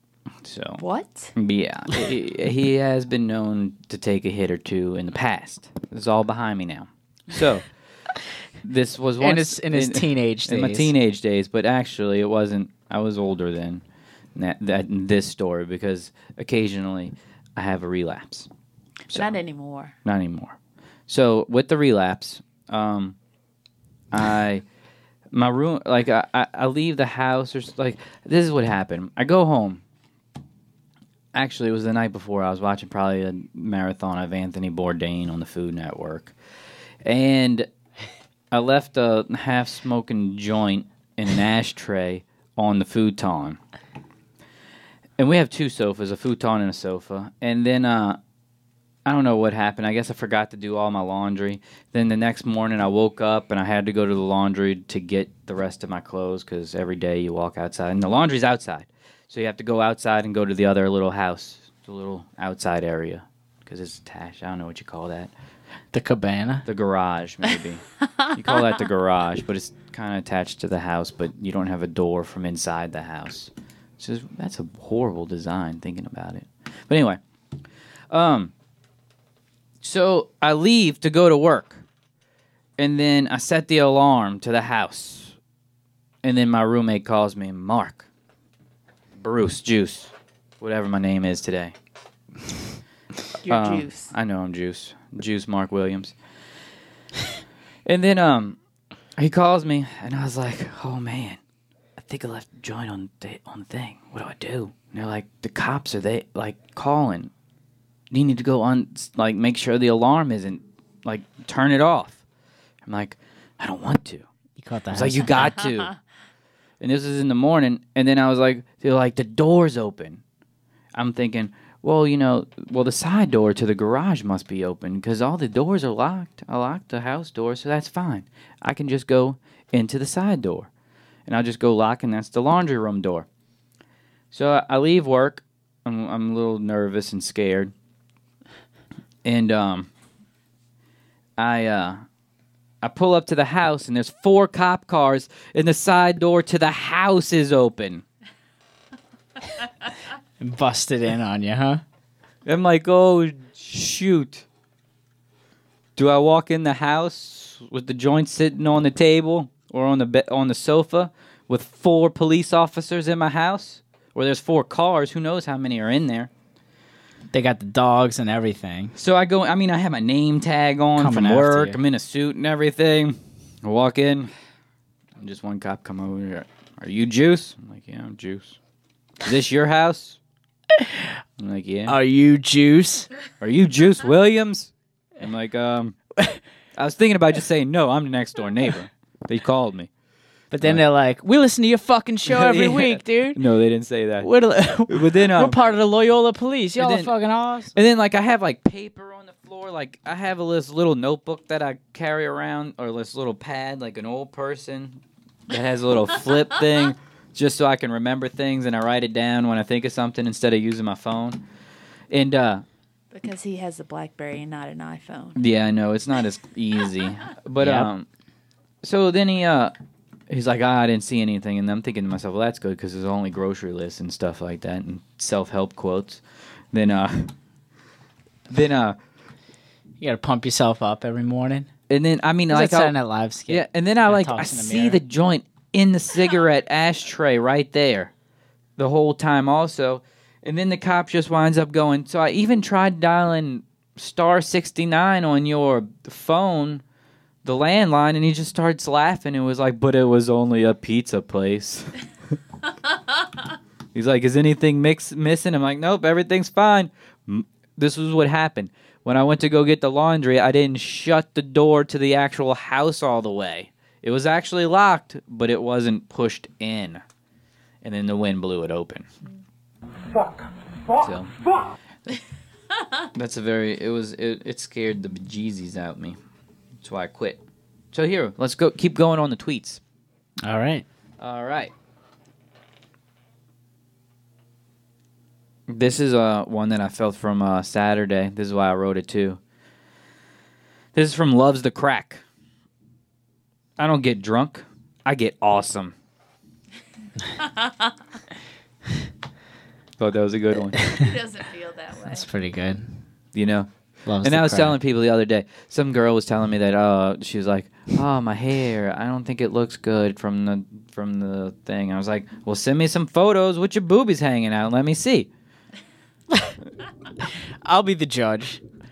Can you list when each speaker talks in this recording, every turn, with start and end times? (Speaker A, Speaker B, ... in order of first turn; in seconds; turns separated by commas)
Speaker A: 0.4-0.8, Speaker B: 0.8-1.3, Speaker A: 1.3-7.7, Speaker A: 8.6-13.8, Speaker C: 9.2-10.9, Speaker A: 14.3-18.5, Speaker B: 19.1-19.9, Speaker A: 20.0-20.6, Speaker A: 21.1-23.2, Speaker A: 24.1-24.6, Speaker A: 25.3-29.8, Speaker A: 31.3-36.3, Speaker A: 37.0-37.7, Speaker A: 38.5-43.6, Speaker A: 45.2-48.2, Speaker A: 49.0-65.3, Speaker C: 65.9-66.7, Speaker A: 66.7-77.2, Speaker A: 78.1-78.5, Speaker A: 79.8-81.8, Speaker A: 82.8-85.4, Speaker A: 86.2-88.1, Speaker A: 89.2-91.7, Speaker B: 93.4-94.1, Speaker A: 93.5-96.1, Speaker A: 97.8-98.6, Speaker A: 99.2-101.4, Speaker A: 102.0-107.3, Speaker A: 108.1-112.2, Speaker A: 112.8-114.3, Speaker C: 114.6-115.3, Speaker A: 114.9-115.9, Speaker A: 116.8-120.2, Speaker A: 120.9-130.7, Speaker A: 131.3-133.3, Speaker A: 134.3-137.7, Speaker A: 139.2-139.9, Speaker A: 141.4-142.0, Speaker A: 142.8-148.0, Speaker C: 150.4-151.8, Speaker A: 152.4-154.4, Speaker A: 155.9-166.3, Speaker C: 167.3-168.9, Speaker A: 168.9-174.3, Speaker C: 171.0-171.8, Speaker A: 175.2-178.6, Speaker A: 179.2-180.2, Speaker C: 180.8-181.1, Speaker A: 181.4-182.0, Speaker C: 181.9-183.1, Speaker A: 183.4-186.0, Speaker A: 186.7-189.9, Speaker C: 190.5-193.4, Speaker A: 192.2-194.3, Speaker C: 194.2-197.7, Speaker A: 194.9-195.6, Speaker A: 196.8-197.1, Speaker A: 197.7-211.4, Speaker A: 212.1-212.6, Speaker B: 213.1-215.4, Speaker A: 215.3-218.1, Speaker C: 217.6-217.9, Speaker A: 218.8-219.7, Speaker A: 220.3-227.3, Speaker A: 228.5-229.0, Speaker C: 230.0-231.7, Speaker A: 231.9-232.9, Speaker C: 232.5-235.0, Speaker A: 233.5-238.1, Speaker A: 238.8-246.8, Speaker A: 247.4-252.0, Speaker A: 253.9-267.0, Speaker A: 267.8-269.1, Speaker A: 271.0-271.3, Speaker A: 273.1-276.2, Speaker A: 276.8-277.4, Speaker A: 277.9-279.8, Speaker C: 280.4-280.8, Speaker A: 281.2-281.7, Speaker A: 285.7-289.4, Speaker A: 290.9-292.2, Speaker A: 293.8-295.9, Speaker B: 297.4-298.0, Speaker A: 300.0-301.1, Speaker B: 300.9-302.2, Speaker C: 302.1-303.0, Speaker A: 303.3-303.7, Speaker C: 304.1-304.8, Speaker A: 304.2-315.3, Speaker C: 317.6-318.6